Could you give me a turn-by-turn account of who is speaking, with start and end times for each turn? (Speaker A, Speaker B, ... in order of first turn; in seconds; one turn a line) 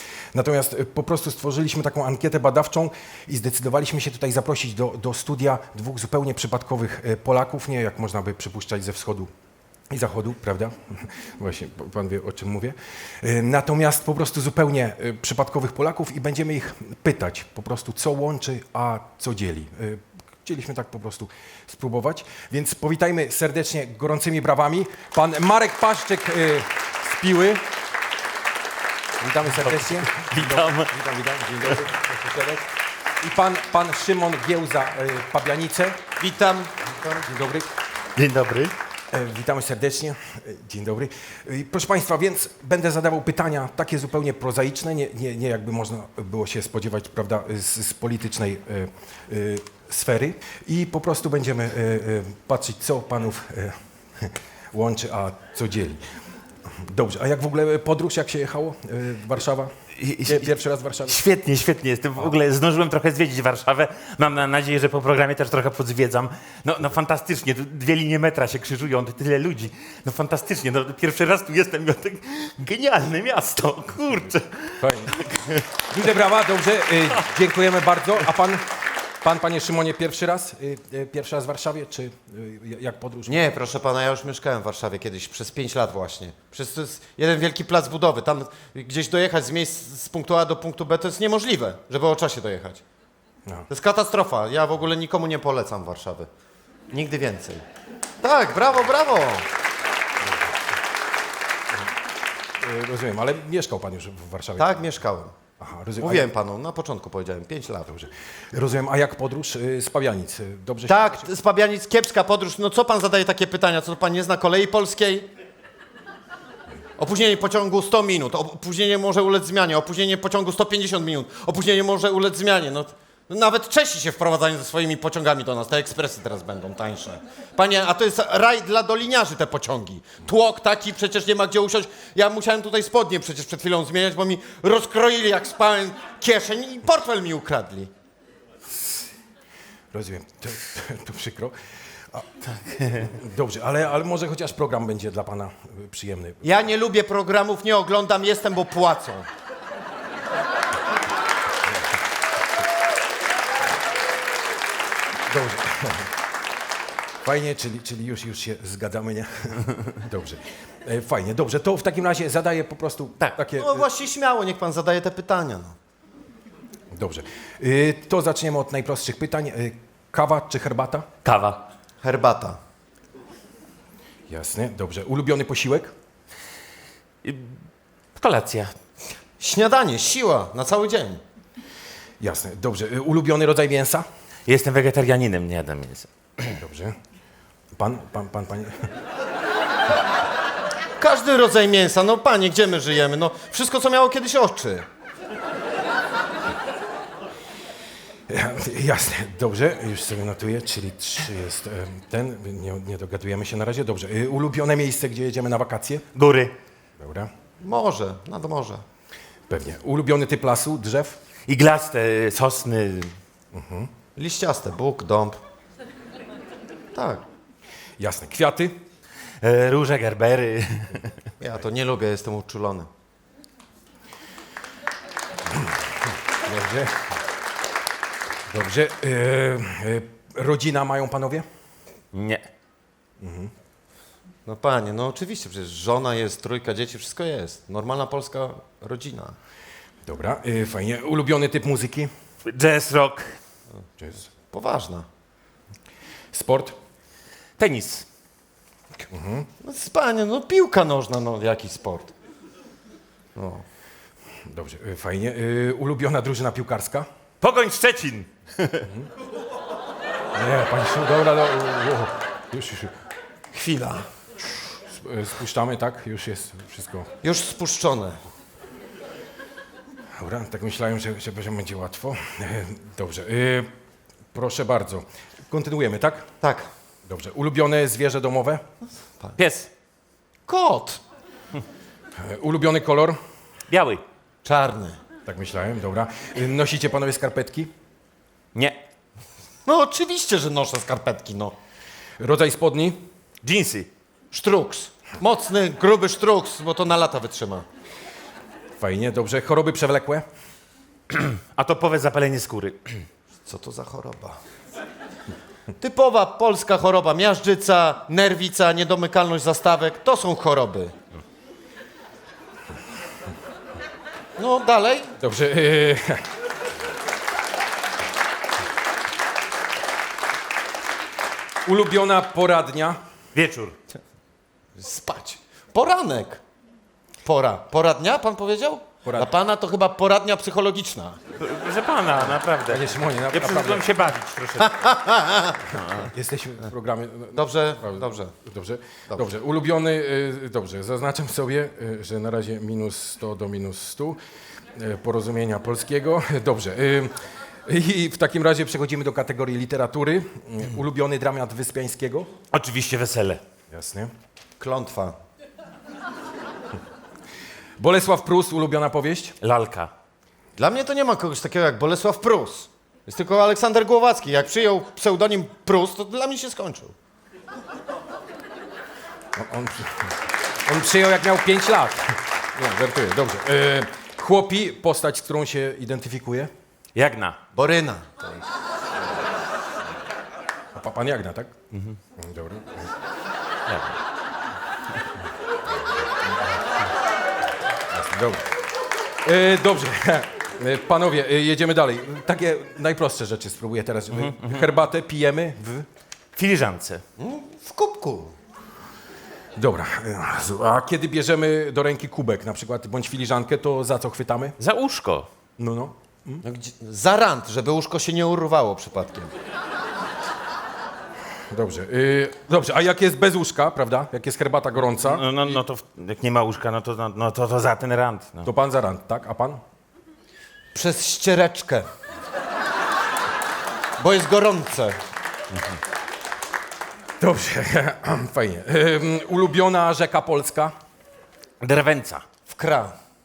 Speaker A: 0.3-9.3
Speaker A: 9.9-27.6
Speaker A: 29.2-32.7
Speaker B: 29.6-30.9
Speaker A: 33.2-36.0
Speaker C: 36.2-37.3
Speaker A: 37.2-37.7
Speaker B: 38.2-38.7
Speaker A: 39.1-56.0
Speaker A: 56.7-59.7
Speaker B: 60.0-60.5
Speaker A: 60.2-61.2
Speaker B: 61.1-76.0
Speaker A: 74.8-75.2
Speaker A: 75.9-78.7
Speaker A: 79.2-83.4
Speaker C: 83.3-92.8
Speaker C: 93.7-96.3
Speaker C: 96.9-97.6
Speaker C: 98.2-99.5
Speaker A: 102.6-104.9
Speaker C: 104.6-105.4
Speaker A: 105.6-106.3
Speaker C: 106.0-108.0
Speaker A: 108.5-111.3
Speaker C: 110.9-115.3
Speaker C: 117.0-137.9
Speaker A: 139.9-141.6
Speaker B: 142.7-143.1
Speaker A: 142.9-146.6
Speaker C: 146.4-149.3
Speaker A: 155.3-156.1
Speaker A: 157.2-163.9
Speaker C: 163.6-165.8
Speaker A: 166.9-171.1
Speaker B: 171.2-171.7
Speaker C: 172.0-172.6
Speaker A: 174.3-175.9
Speaker B: 177.2-177.6
Speaker B: 178.2-178.7
Speaker C: 179.4-181.2
Speaker A: 182.2-184.1
Speaker B: 184.5-186.6
Speaker A: 186.5-187.0
Speaker A: 187.8-188.8
Speaker C: 191.0-194.9
Speaker A: 198.3-206.1
Speaker B: 206.1-206.5
Speaker A: 207.0-207.3
Speaker C: 207.6-208.8
Speaker A: 209.5-211.2
Speaker B: 211.5-213.2
Speaker A: 213.5-213.9
Speaker C: 214.2-215.4
Speaker C: 216.9-217.2
Speaker A: 218.0-218.8
Speaker B: 219.4-221.2
Speaker C: 221.4-222.9
Speaker A: 226.4-227.0
Speaker A: 228.5-231.4
Speaker B: 232.1-232.5
Speaker A: 233.2-233.5
Speaker C: 234.5-239.4
Speaker A: 240.1-242.1
Speaker B: 242.5-243.4
Speaker A: 244.0-244.3
Speaker C: 244.5-245.1
Speaker A: 246.3-246.8
Speaker B: 247.6-248.1
Speaker A: 249.1-249.5
Speaker C: 249.6-252.1
Speaker C: 253.4-253.6
Speaker A: 254.4-257.1
Speaker B: 257.4-258.9
Speaker A: 258.9-259.1
Speaker A: 260.4-262.9
Speaker C: 263.5-264.1
Speaker A: 264.9-267.1
Speaker C: 267.2-268.2
Speaker A: 270.2-273.7
Speaker A: 274.3-276.3
Speaker C: 276.4-276.7
Speaker A: 277.1-278.6
Speaker B: 279.4-279.7
Speaker C: 280.5-281.0
Speaker A: 282.2-283.2
Speaker B: 283.7-284.0
Speaker C: 284.4-285.0
Speaker A: 285.3-287.7
Speaker C: 289.6-291.5
Speaker A: 292.2-293.1
Speaker B: 293.4-293.9
Speaker C: 294.3-297.6
Speaker A: 298.8-300.2
Speaker B: 301.1-303.1
Speaker C: 303.5-304.4
Speaker C: 305.8-310.9
Speaker C: 314.4-315.1
Speaker A: 315.2-316.2
Speaker A: 321.6-323.0
Speaker B: 323.3-323.8
Speaker C: 324.8-326.4
Speaker C: 327.2-331.2
Speaker A: 329.1-329.4
Speaker B: 331.4-334.8
Speaker A: 332.7-333.9
Speaker C: 334.6-335.8
Speaker A: 335.7-344.2
Speaker B: 335.8-336.1
Speaker C: 337.4-338.3
Speaker A: 344.7-352.3
Speaker B: 352.5-353.4
Speaker A: 353.7-354.1
Speaker C: 354.6-355.2
Speaker A: 357.8-359.4
Speaker B: 359.4-359.9
Speaker C: 360.6-366.9
Speaker A: 369.4-376.5
Speaker B: 376.9-377.4
Speaker C: 377.5-378.4
Speaker A: 380.8-381.5
Speaker B: 381.7-382.0
Speaker A: 382.2-382.9
Speaker B: 383.7-384.0
Speaker A: 387.9-388.5
Speaker A: 389.2-395.9
Speaker B: 394.1-394.7
Speaker B: 396.4-397.0
Speaker C: 397.2-398.4
Speaker A: 399.6-404.6
Speaker B: 404.6-405.3
Speaker A: 405.6-406.4
Speaker C: 406.4-409.3
Speaker A: 411.5-415.6
Speaker B: 415.0-418.5
Speaker A: 418.4-419.6
Speaker C: 420.7-421.9
Speaker C: 424.0-425.0
Speaker A: 427.2-430.7
Speaker B: 431.6-432.2
Speaker C: 432.5-432.9